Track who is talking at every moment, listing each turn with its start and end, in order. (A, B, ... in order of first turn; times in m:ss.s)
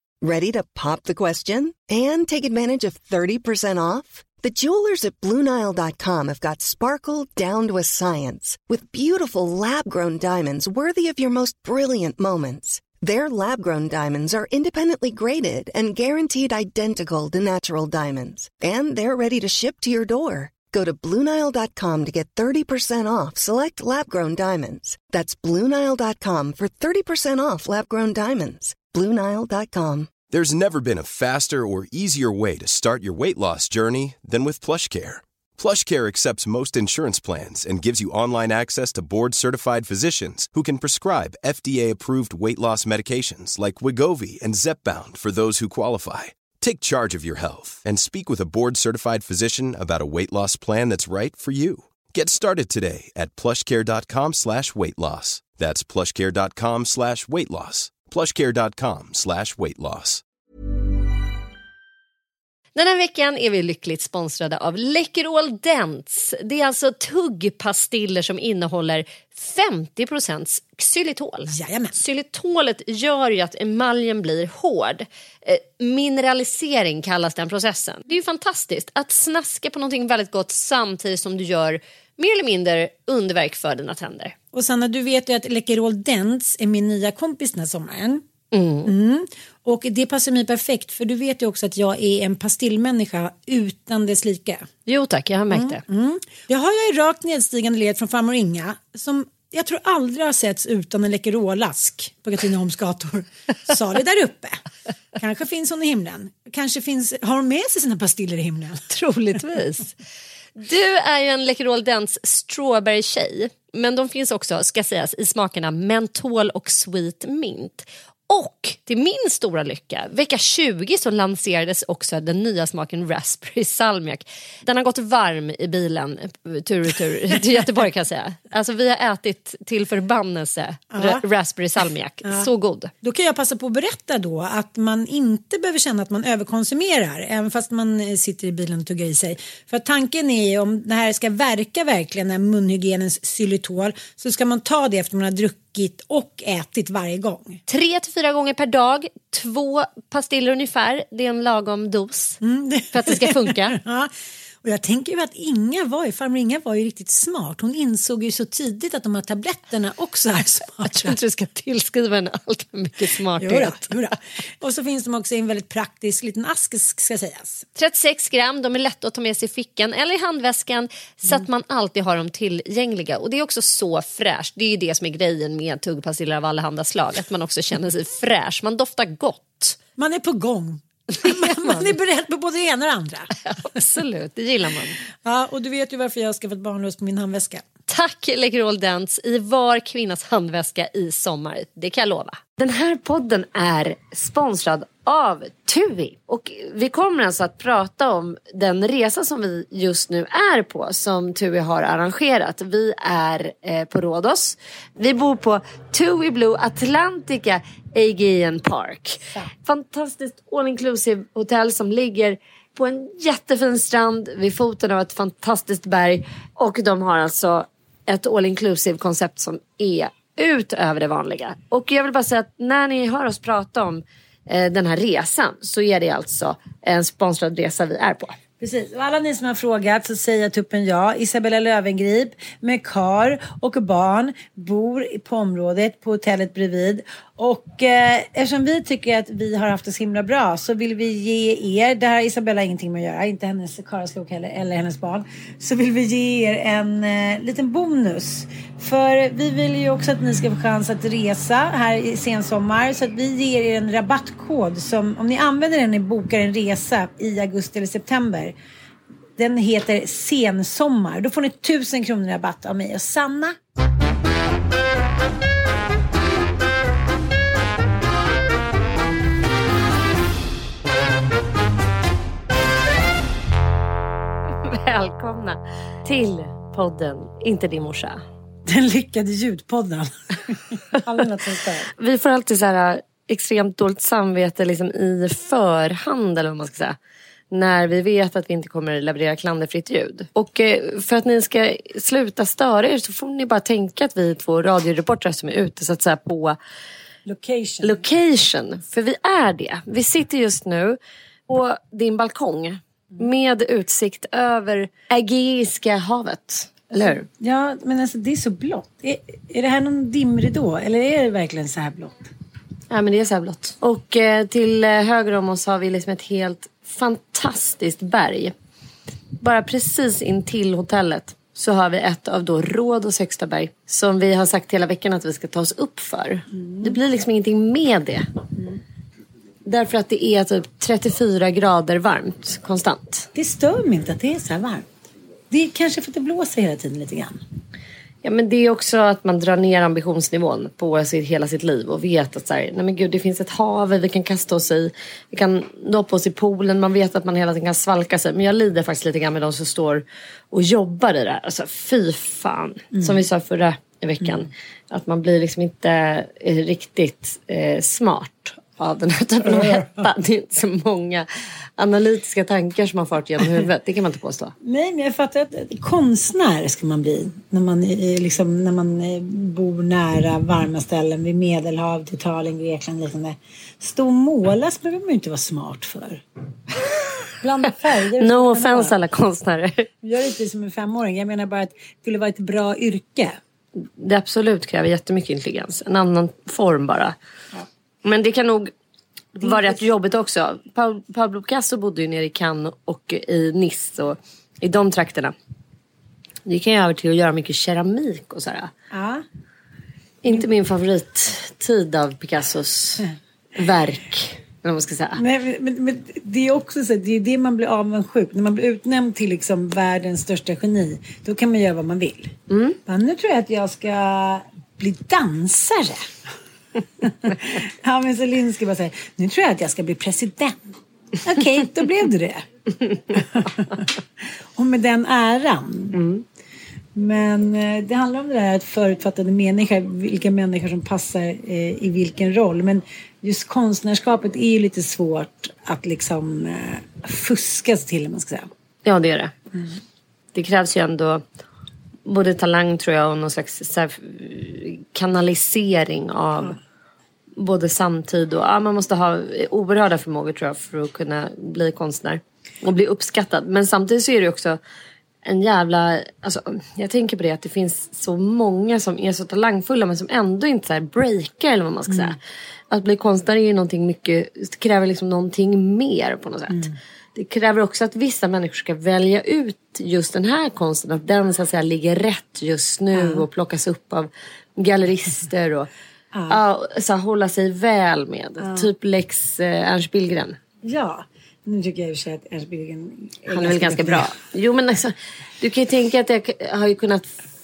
0:00.2-0:30.1 A
0:30.3-1:00.2 B
1:02.7-1:24.4 C
1:11.4-1:12.0 D
1:24.5-1:28.2 D
1:28.5-1:28.9 C
1:28.8-1:34.7 D
1:34.9-1:35.8 C
1:35.5-1:44.6 D
1:45.2-1:48.9 D
1:48.9-1:49.9 C
1:50.6-2:12.9 C
2:10.9-2:11.2 D
2:13.0-2:27.6 D
2:27.7-2:32.4 C
2:32.4-2:34.1 D
2:32.9-2:33.8 C
2:34.6-2:41.2 D
2:40.9-2:44.0 C
2:43.4-2:47.6 D
2:47.8-2:59.8 C
3:00.0-3:03.3 D
3:01.1-3:01.9 C
3:03.5-3:05.0 C
3:05.2-3:07.6 D
3:07.9-3:48.4 C
3:48.6-4:18.5 D
4:19.4-4:23.6 D
4:34.6-4:38.2 C
4:38.7-4:41.9 D
4:42.0-4:47.0 C
4:47.5-4:56.6 C
4:57.2-4:58.0 D
4:57.8-5:07.2 C
5:07.0-5:12.1 D
5:12.9-5:18.5 C
5:19.4-5:28.2 C
5:26.5-5:27.0 D
5:29.6-5:33.3 C
5:33.3-5:34.9 D
5:35.5-5:37.4 D
5:38.2-6:01.2 C
5:52.9-5:53.2 D
5:59.4-6:00.1 D
6:01.8-6:04.5 C
6:04.6-6:16.2 D
6:17.4-6:19.0 D
6:18.2-6:19.9 C
6:20.0-6:23.4 D
6:23.8-6:27.2 C
6:28.0-6:28.7 C
6:29.4-6:35.3 C
6:29.4-6:29.8 D
6:36.4-6:38.7 C
6:38.9-6:39.2 D
6:40.2-6:45.2 C
6:45.1-6:52.3 D
6:52.5-6:52.8 C
6:52.8-6:56.1 D
6:57.0-7:02.4 D
7:03.1-7:03.8 D
7:04.6-7:06.0 D
7:06.0-7:06.2 C
7:06.9-7:18.5 D
7:18.8-7:19.3 C
7:20.3-7:21.2 C
7:22.0-7:26.6 C
7:27.4-7:34.6 C
7:35.2-7:42.2 C
7:41.9-7:42.2 D
7:42.7-7:55.7 C
7:46.5-7:46.8 D
7:52.9-7:53.3 D
7:56.1-7:56.4 D
7:56.3-8:00.4 C
7:58.4-7:58.7 D
8:00.6-8:04.1 D
8:03.3-8:07.2 C